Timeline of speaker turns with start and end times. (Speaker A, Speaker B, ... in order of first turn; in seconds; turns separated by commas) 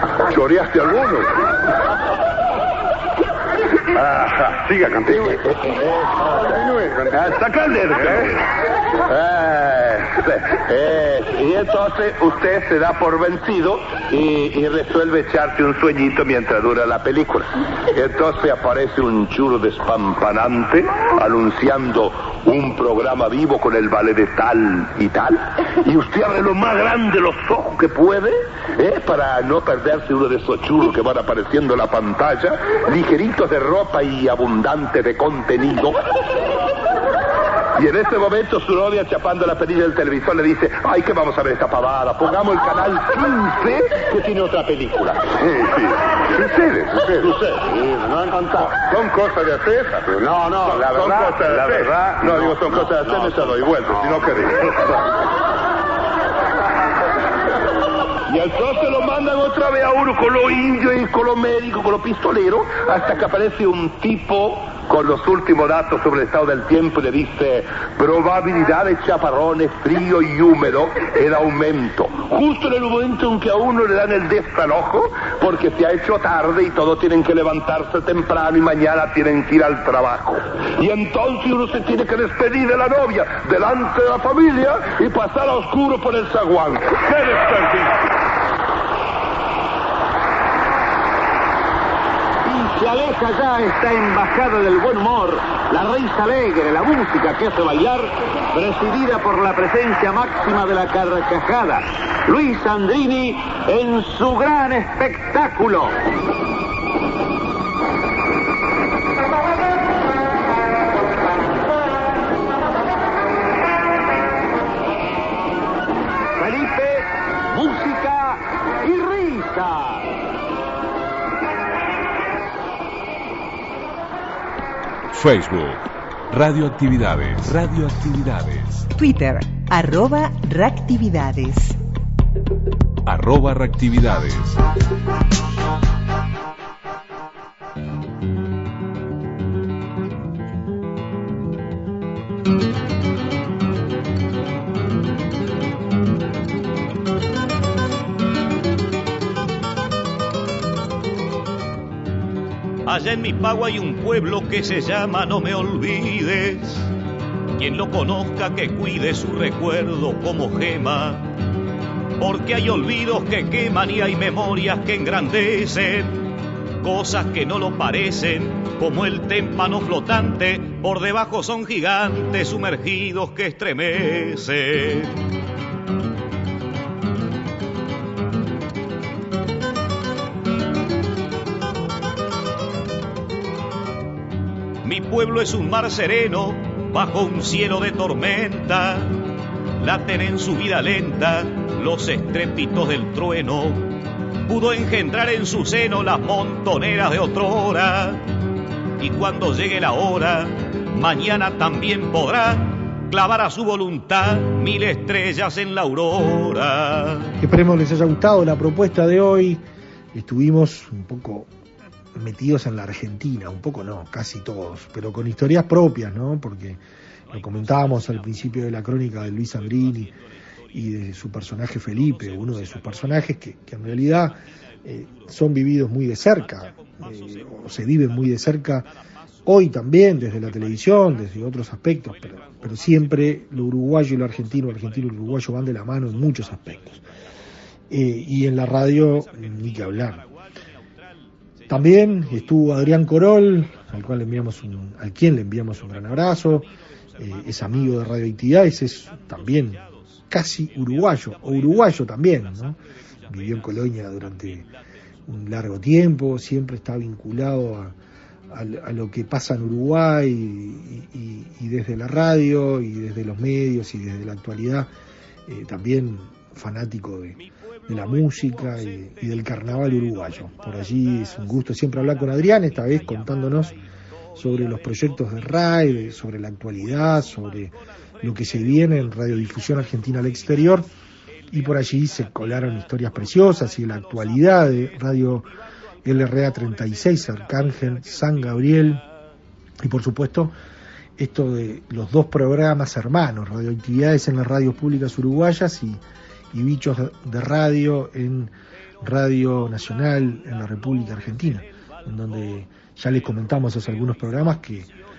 Speaker A: 0.3-1.3, Speaker A: 4.0-4.5, Speaker B: 4.2-5.4, Speaker A: 5.1-5.6, Speaker B: 6.8-7.2, Speaker A: 7.1-8.4, Speaker A: 9.1-36.0, Speaker A: 37.8-45.4, Speaker B: 45.4-54.6, Speaker A: 47.2-47.6, Speaker A: 48.4-49.8, Speaker A: 50.6-54.9, Speaker A: 58.3-87.0, Speaker C: 92.4-106.0, Speaker C: 116.4-120.1, Speaker D: 125.1-128.9, Speaker E: 128.9-131.8, Speaker D: 133.1-134.6, Speaker F: 152.9-156.9, Speaker F: 157.6-161.3, Speaker F: 162.2-166.3, Speaker F: 166.8-175.2, Speaker F: 184.8-189.2, Speaker F: 189.8-193.9, Speaker F: 194.5-198.2, Speaker F: 199.0-207.3, Speaker G: 207.4-209.6, Speaker G: 210.1-211.5, Speaker G: 212.2-216.8, Speaker G: 217.3-220.2, Speaker G: 220.7-228.9, Speaker G: 229.4-237.0, Speaker G: 237.9-240.3, Speaker G: 241.7-252.8, Speaker G: 253.3-254.7, Speaker G: 255.3-257.9, Speaker G: 258.5-264.9, Speaker G: 265.5-273.8, Speaker G: 274.4-280.9, Speaker G: 281.5-285.5, Speaker G: 286.0-289.0, Speaker G: 289.8-290.5, Speaker G: 291.2-296.0, Speaker G: 296.5-304.9